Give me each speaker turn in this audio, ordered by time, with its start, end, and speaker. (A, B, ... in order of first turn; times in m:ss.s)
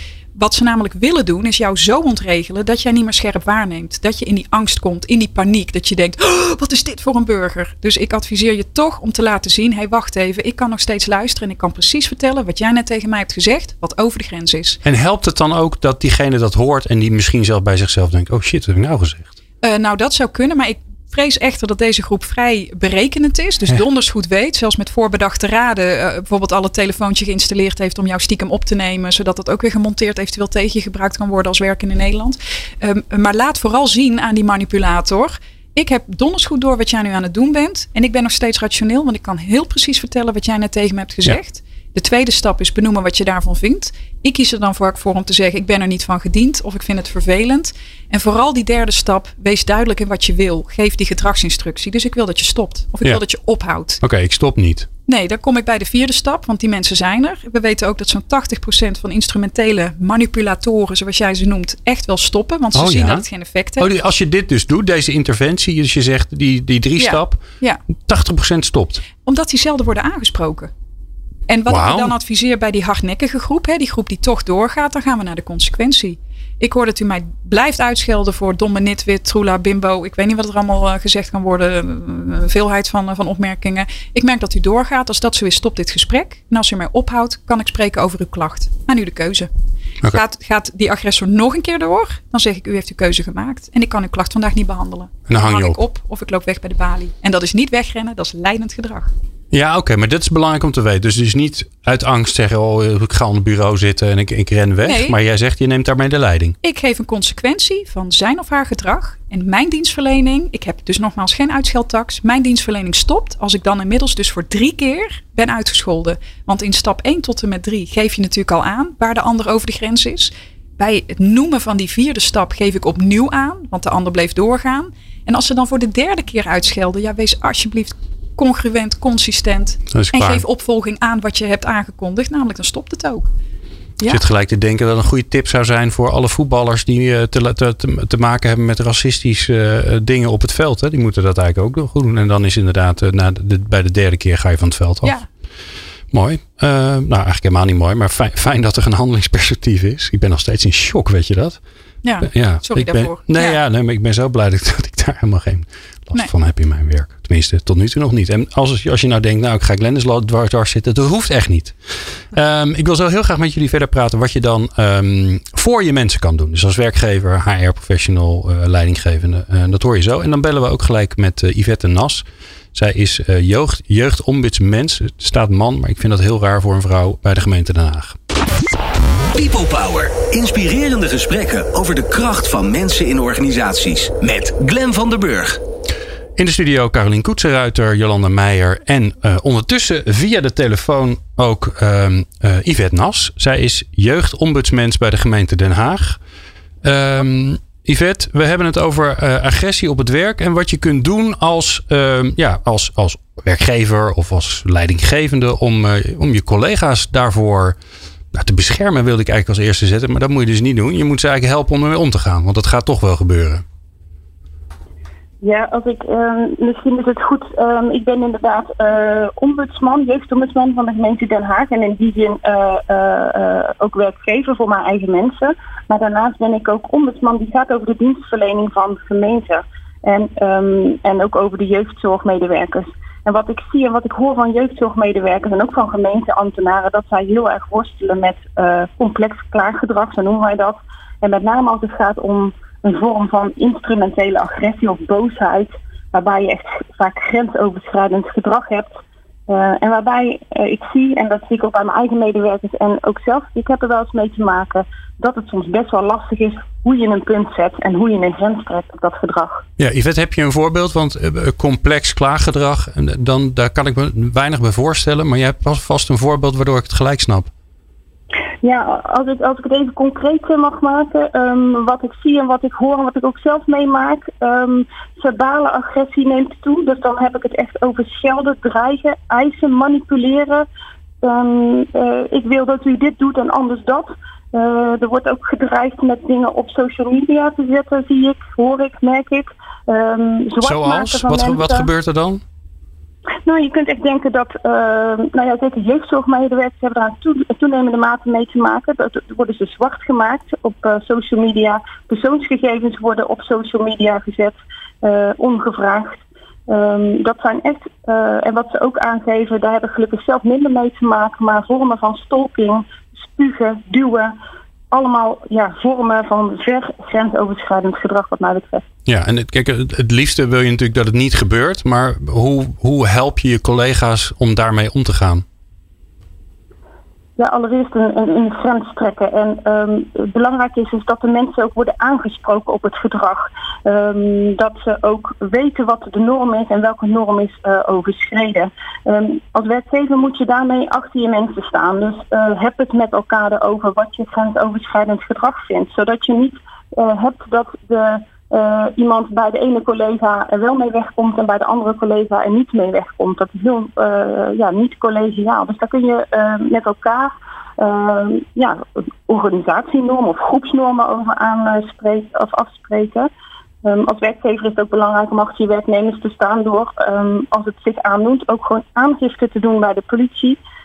0:00.4-0:14.8 A
0:14.8-0:19.3 B
0:19.6-0:54.0 A
0:54.0-0:54.9 B
0:55.1-1:03.9 A
1:02.7-1:03.2 B
1:03.8-1:07.4 B
1:07.0-1:07.8 A
1:08.0-1:09.0 B
1:09.2-1:10.7 A
1:11.5-1:29.5 A
1:11.7-1:12.1 B
1:30.1-1:39.1 A
1:35.3-1:35.8 B
1:39.5-1:46.6 B
1:44.8-1:45.1 A
1:46.6-2:13.2 A
2:09.9-2:10.4 B
2:14.1-2:25.2 B
2:26.1-2:31.6 B
2:32.0-2:33.6 A
2:32.2-2:58.2 B
2:59.3-3:05.6 C
3:06.4-3:16.2 B
3:16.8-3:27.8 B
3:28.3-3:33.6 B
3:35.4-4:09.0 D
4:09.5-4:19.6 D
4:19.8-4:27.5 B
4:28.6-4:40.6 D
4:41.2-4:51.9 D
4:50.6-4:52.4 B
4:53.4-5:14.3 D
5:14.9-5:18.8 D
5:19.0-5:25.4 B
5:27.4-6:03.3 D
6:03.8-6:10.6 D